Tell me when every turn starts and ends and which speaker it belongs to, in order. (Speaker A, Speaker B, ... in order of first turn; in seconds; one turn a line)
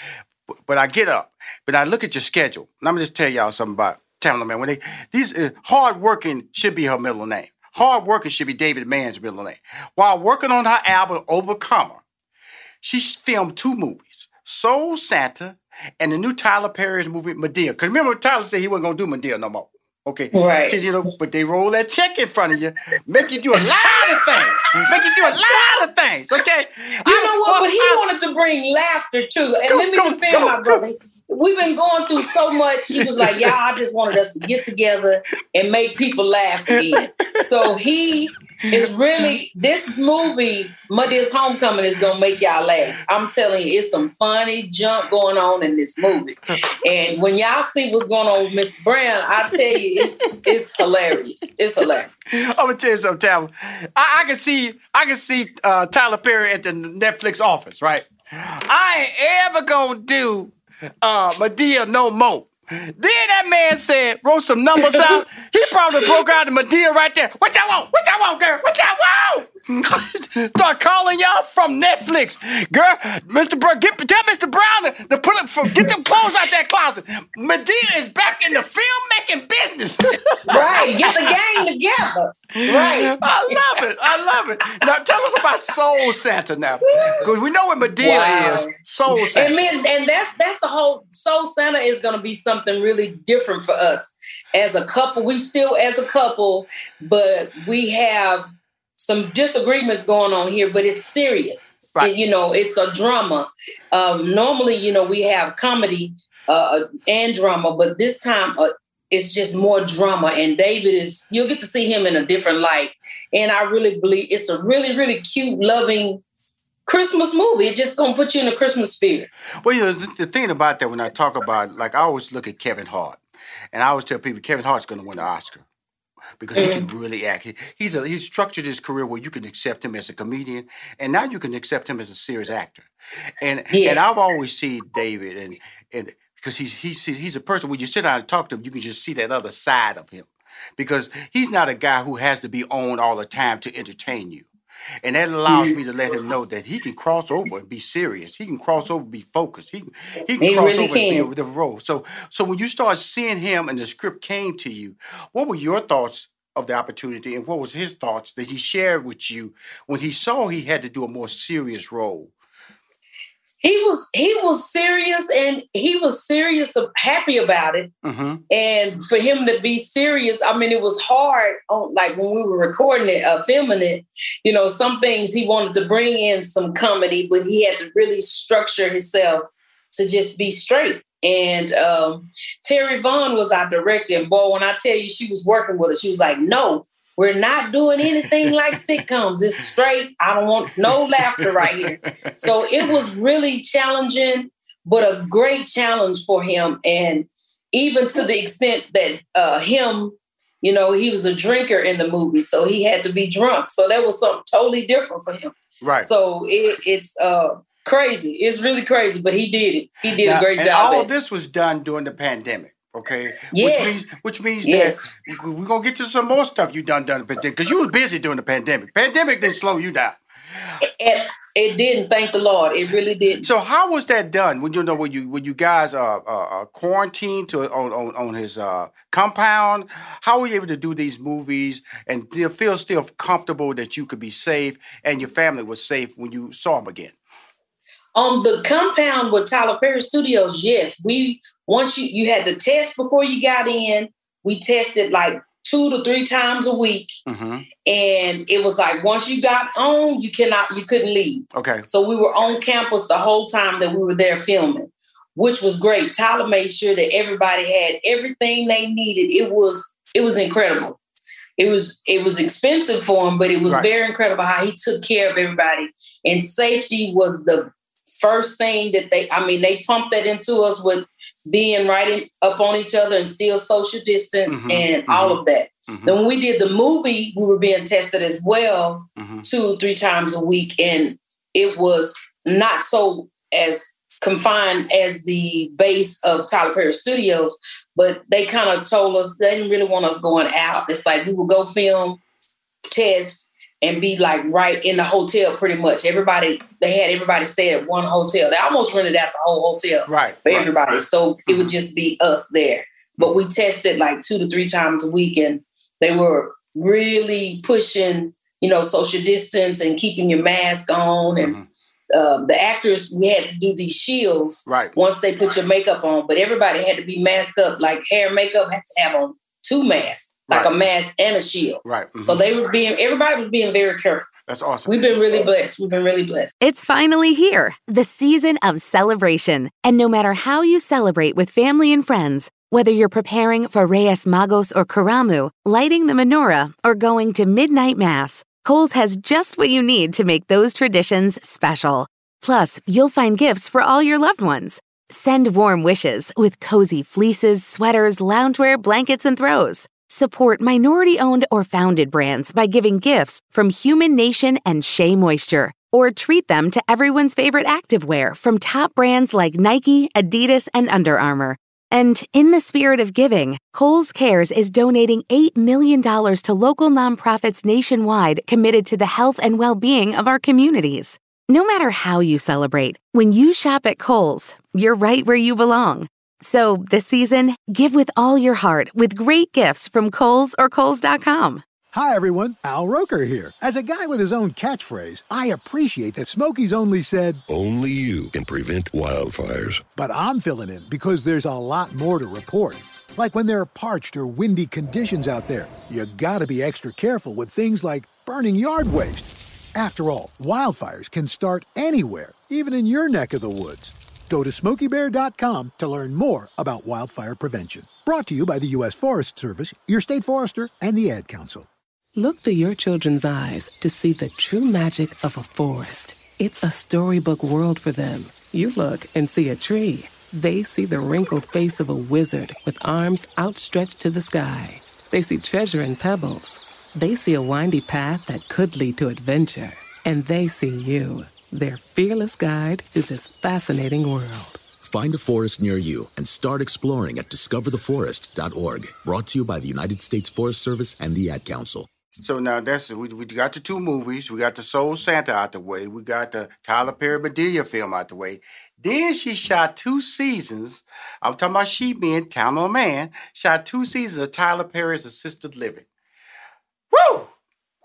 Speaker A: 0.7-12.0
Speaker A: 12.8-28.0
Speaker B: 20.3-20.8
Speaker B: 23.6-25.6
Speaker B: 27.1-52.1
Speaker A: 29.7-30.8
Speaker A: 32.9-33.5
Speaker A: 36.8-37.4
Speaker A: 38.7-39.4
Speaker A: 49.5-50.5
Speaker A: 52.3-81.3
Speaker B: 80.5-83.6
Speaker A: 82.6-89.5
Speaker B: 86.8-87.3
Speaker B: 88.0-116.2
Speaker B: 116.9-119.3
Speaker A: 119.6-123.2
Speaker A: 123.7-125.6
Speaker A: 126.4-132.9
Speaker B: 126.5-126.8
Speaker A: 133.4-144.5
Speaker B: 133.7-134.1
Speaker A: 145.0-162.3
Speaker B: 145.5-145.8
Speaker B: 150.4-151.3
Speaker B: 163.6-167.9
Speaker A: 168.0-168.4
Speaker B: 168.5-211.1
Speaker A: 191.6-191.9
Speaker A: 205.8-206.1
Speaker A: 210.2-220.2
Speaker B: 213.5-215.1
Speaker B: 221.0-223.4
Speaker A: 223.4-237.1
Speaker B: 238.1-247.1
Speaker A: 247.2-247.7
Speaker B: 247.8-261.0
Speaker A: 251.5-251.8
Speaker B: 261.6-292.2
Speaker A: 274.5-276.1
Speaker A: 279.2-279.4
Speaker B: 292.9-311.5
Speaker A: 300.1-301.7
Speaker A: 311.4-311.7
Speaker B: 312.1-324.3
Speaker A: 314.6-314.9
Speaker A: 321.8-322.4
Speaker A: 324.5-325.5
Speaker B: 324.9-326.5
Speaker C: 326.6-381.6
Speaker D: 381.9-387.4
Speaker E: 387.5-389.9
Speaker D: 389.9-411.7
Speaker F: 412.1-434.6
Speaker G: 434.8-441.9
Speaker A: 442.1-455.8
Speaker A: 456.9-457.3